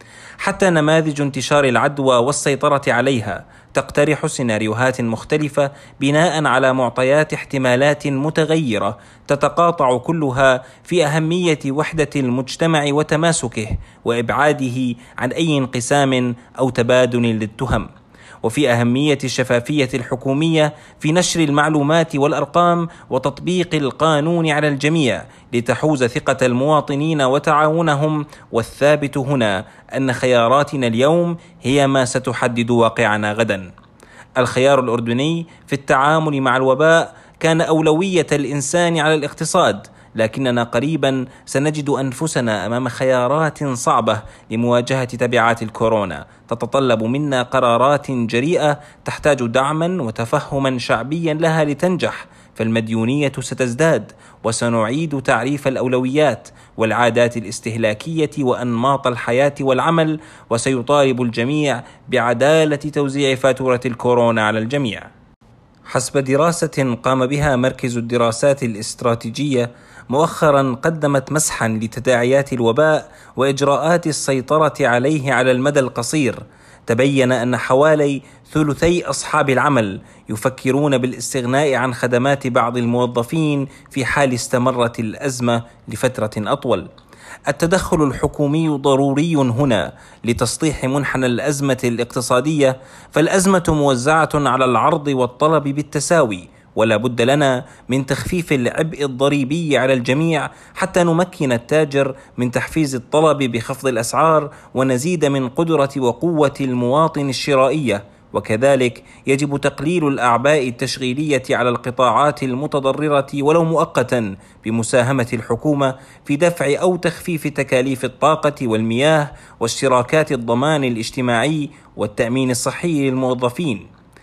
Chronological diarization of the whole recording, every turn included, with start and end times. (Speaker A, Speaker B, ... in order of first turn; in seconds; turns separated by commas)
Speaker A: 0.4-17.9, Speaker A: 18.4-33.7, Speaker A: 34.4-65.1, Speaker A: 65.9-86.9, Speaker A: 87.5-123.9